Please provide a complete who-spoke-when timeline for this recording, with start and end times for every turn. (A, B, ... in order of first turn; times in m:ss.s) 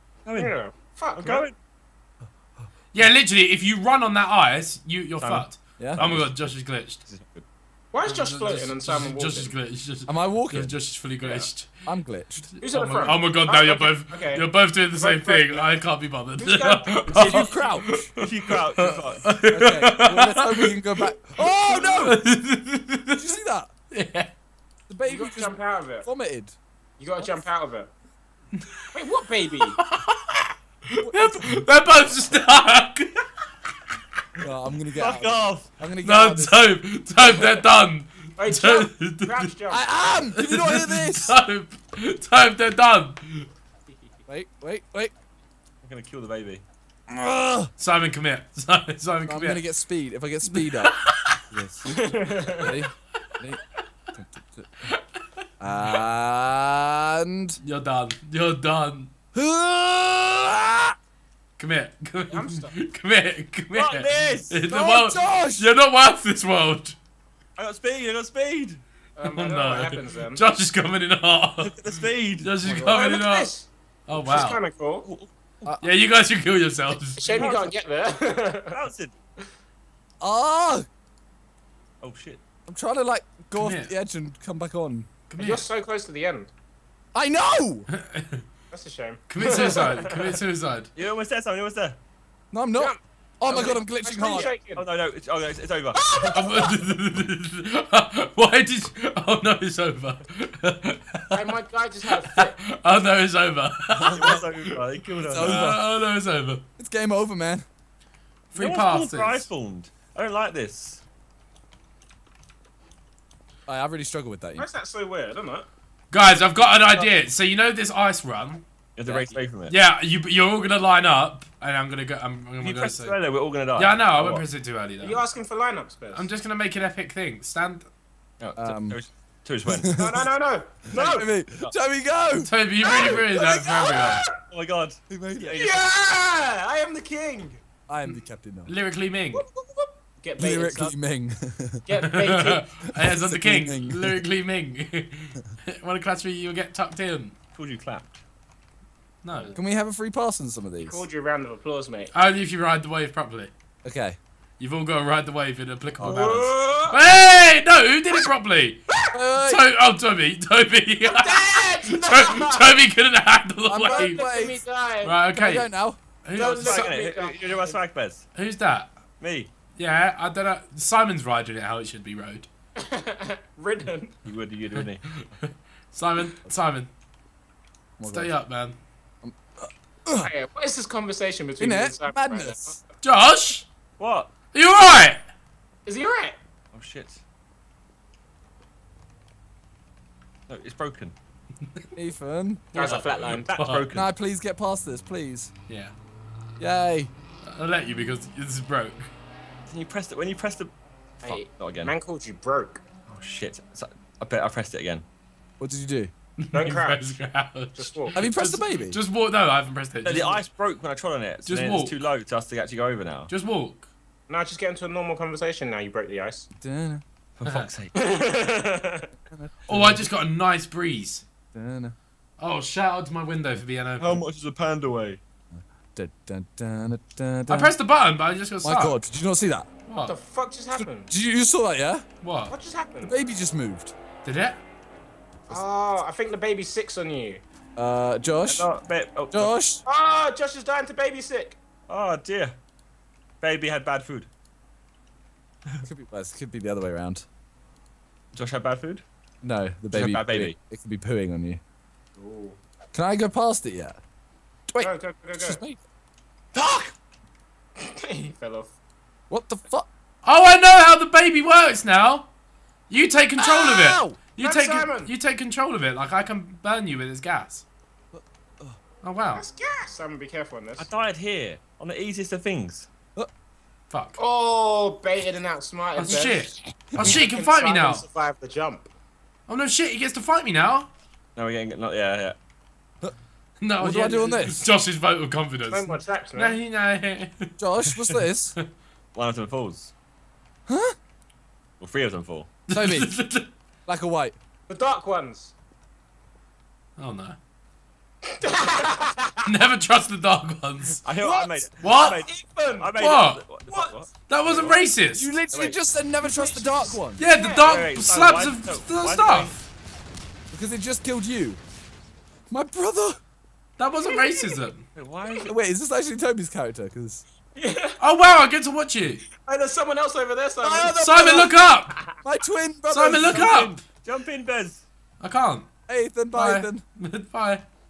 0:00.2-0:00.5 A
0:00.4-0:01.4 B
0:01.2-0:01.6 A
0:02.9-0:07.0 C
0:05.2-0:07.5 A
0:05.8-0:06.1 D
0:07.9-0:09.5 B
0:08.0-0:11.8 C
0:10.1-0:10.8 D
0:11.2-0:11.5 B
0:11.9-0:12.5 D
0:12.5-0:21.1 C
0:12.6-0:15.7 B
0:16.4-0:17.2 B
0:17.1-0:18.1 D
0:17.2-0:17.5 A
0:18.2-0:19.3 A
0:19.5-0:22.2 D
0:21.6-0:23.2 C
0:23.1-0:23.7 D
0:23.9-0:24.3 C
0:24.9-0:26.6 D
0:25.0-0:26.1 B
0:27.0-0:27.9 B
0:28.6-0:28.9 C
0:28.9-0:29.8 B
0:29.6-0:33.3 C
0:31.0-0:31.7 D
0:34.4-0:36.6 D
0:35.0-0:35.7 A
0:36.0-0:39.5 C
0:38.4-0:40.3 B
0:39.7-0:41.4 D
0:40.4-0:43.5 C
0:44.3-0:45.1 D
0:45.8-0:46.6 A
0:47.1-0:47.7 D
0:47.8-0:49.6 C
0:49.3-0:51.0 D
0:50.5-0:51.4 C
0:51.5-0:53.6 D
0:51.9-0:52.7 B
0:54.2-0:54.9 D
0:55.6-0:57.6 D
0:57.6-0:59.1 C
0:59.3-1:01.0 D
1:01.6-1:07.0 C
1:02.3-1:02.8 B
1:03.7-1:04.6 A
1:04.7-1:05.7 D
1:07.6-1:08.8 A
1:09.2-1:10.4 B
1:09.2-1:13.5 C
1:11.6-1:12.5 A
1:12.6-1:13.0 D
1:12.8-1:15.1 B
1:14.1-1:14.6 C
1:15.0-1:15.7 A
1:15.8-1:17.5 C
1:17.2-1:18.8 B
1:17.2-1:17.8 A
1:18.7-1:19.1 A
1:20.2-1:20.9 D
1:22.0-1:22.4 A
1:22.7-1:25.1 D
1:23.6-1:23.9 C
1:25.3-1:25.7 C
1:25.4-1:26.5 B
1:27.1-1:27.9 D
1:27.9-1:28.4 C
1:28.7-1:30.4 B
1:29.3-1:30.9 C
1:31.0-1:32.0 A
1:32.5-1:34.5 D
1:32.8-1:34.8 B
1:34.3-1:36.2 A
1:36.0-1:36.8 B
1:36.3-1:41.5 C
1:41.3-1:42.6 B
1:42.1-1:44.7 C
1:43.9-1:44.5 D
1:44.1-1:45.7 A
1:45.1-1:45.8 D
1:45.4-1:46.6 C
1:46.8-1:47.7 D
1:48.5-1:49.5 C
1:48.6-1:51.0 A
1:53.7-1:54.7 D
1:54.6-1:55.7 B
1:56.1-1:58.6 C
1:59.0-1:59.8 A
1:59.1-1:59.4 D
1:59.7-2:03.2 C
2:02.6-2:04.4 A
2:03.8-2:05.2 C
2:05.0-2:06.3 B
2:06.1-2:07.9 C
2:08.4-2:10.0 A
2:08.6-2:09.0 D
2:09.7-2:10.2 D
2:09.9-2:11.3 B
2:10.9-2:13.9 D
2:12.4-2:14.2 C
2:12.8-2:14.3 B
2:14.4-2:15.9 A
2:15.1-2:15.6 D
2:15.5-2:17.6 B
2:17.9-2:18.7 D
2:18.7-2:19.4 C
2:19.3-2:21.0 B
2:20.4-2:21.8 D
2:21.9-2:22.6 B
2:22.0-2:27.4 C
2:22.9-2:24.2 D
2:27.5-2:28.2 A
2:29.2-2:29.6 C
2:29.3-2:29.6 B
2:29.5-2:31.0 D
2:30.8-2:32.1 B
2:32.1-2:33.5 C
2:33.8-2:34.2 D
2:34.6-2:38.8 C
2:36.0-2:36.3 A
2:36.0-2:37.0 B
2:38.9-2:39.1 B
2:39.1-2:39.6 D
2:39.4-2:44.3 C
2:41.0-2:42.8 B
2:43.6-2:44.6 D
2:43.9-2:45.1 B
2:45.0-2:45.7 C
2:45.4-2:46.0 D
2:46.2-2:46.9 C
2:46.4-2:47.8 B
2:46.4-2:48.3 A
2:48.4-2:48.9 C
2:49.2-2:49.5 A
2:49.8-2:52.5 C
2:52.8-2:54.1 B
2:54.2-2:55.0 A
2:54.8-2:56.9 C
2:58.0-2:58.3 D
2:58.1-2:58.8 C
2:59.2-3:00.3 D
3:00.2-3:02.8 B
3:01.6-3:02.8 D
3:03.0-3:03.7 C
3:04.0-3:04.3 A
3:04.5-3:05.2 C
3:05.9-3:06.4 B
3:06.7-3:07.2 A
3:10.5-3:11.1 A
3:12.0-3:12.6 D
3:12.7-3:13.9 C
3:12.7-3:13.5 B
3:13.5-3:14.1 A
3:13.9-3:15.5 D
3:15.7-3:15.9 C
3:16.6-3:17.1 D
3:17.4-3:19.1 C
3:19.7-3:20.7 A
3:21.2-3:22.8 B
3:21.2-3:21.9 A
3:23.1-3:25.1 A
3:25.6-3:26.1 D
3:26.4-3:30.4 C
3:26.5-3:27.1 B
3:27.8-3:28.2 B
3:28.1-3:29.0 D
3:30.0-3:33.3 A
3:31.5-3:32.0 C
3:33.3-3:33.9 C
3:34.3-3:36.5 B
3:36.6-3:37.0 D
3:37.4-3:37.9 A
3:37.4-3:37.7 C
3:38.0-3:39.1 B
3:39.3-3:40.1 D
3:39.7-3:41.2 C
3:41.5-3:42.0 D
3:42.4-3:44.2 C
3:44.0-3:45.2 A
3:45.5-3:47.7 D
3:47.5-3:49.0 C
3:48.6-3:49.7 D
3:49.9-3:50.1 C
3:50.0-3:51.1 B
3:51.0-3:52.0 D
3:52.2-3:52.5 C
3:52.5-3:53.1 B
3:53.0-3:53.9 D
3:54.2-3:54.6 C
3:55.5-3:57.4 B
3:57.8-3:58.7 D
3:58.5-3:59.5 A
3:59.3-3:59.8 D
3:59.8-4:01.6 B
4:01.9-4:02.6 A
4:03.4-4:04.3 A
4:05.8-4:07.3 D
4:08.3-4:09.0 A
4:09.4-4:11.6 D
4:09.9-4:10.6 A
4:12.2-4:12.6 B
4:12.9-4:14.0 D
4:14.7-4:15.8 D
4:14.8-4:15.6 B
4:16.5-4:16.9 D
4:17.8-4:18.8 B
4:19.3-4:19.9 D
4:20.2-4:22.3 C
4:22.9-4:27.6 C
4:23.4-4:24.2 D
4:24.4-4:25.1 B
4:28.1-4:28.8 D
4:29.0-4:29.4 C
4:29.3-4:30.9 B
4:30.8-4:32.9 A
4:33.9-4:34.2 C
4:34.2-4:38.9 B
4:36.0-4:38.0 C
4:36.9-4:37.2 D
4:39.5-4:40.9 C
4:41.4-4:42.4 A
4:43.6-4:48.6 C
4:43.8-4:44.6 D
4:45.7-4:46.6 B
4:47.6-4:48.6 D
4:49.1-4:49.9 A
4:50.7-4:51.0 D
4:51.8-4:52.6 A
4:52.7-4:53.5 C
4:52.7-4:53.1 D
4:53.9-4:54.4 D
4:54.7-4:55.5 B
4:57.0-4:57.4 C
4:58.3-4:59.5 B
4:59.4-5:01.0 C
5:01.0-5:04.8 A
5:01.2-5:03.0 B
5:01.8-5:02.2 C
5:02.9-5:03.4 C
5:03.7-5:04.0 B
5:04.3-5:05.3 C
5:05.1-5:07.2 D
5:05.5-5:05.8 A
5:06.2-5:07.8 B
5:07.2-5:09.6 C
5:07.6-5:09.6 A
5:10.5-5:11.6 D
5:12.5-5:13.2 D
5:13.8-5:14.9 C
5:14.0-5:14.6 B
5:15.0-5:15.5 A
5:15.4-5:17.2 D
5:17.6-5:18.0 B
5:18.0-5:19.2 C
5:19.4-5:22.2 B
5:20.6-5:21.5 D
5:21.0-5:21.9 C
5:22.2-5:23.8 D
5:22.9-5:23.8 C
5:24.0-5:24.9 A
5:25.2-5:25.7 C
5:25.9-5:26.8 D
5:26.3-5:27.6 C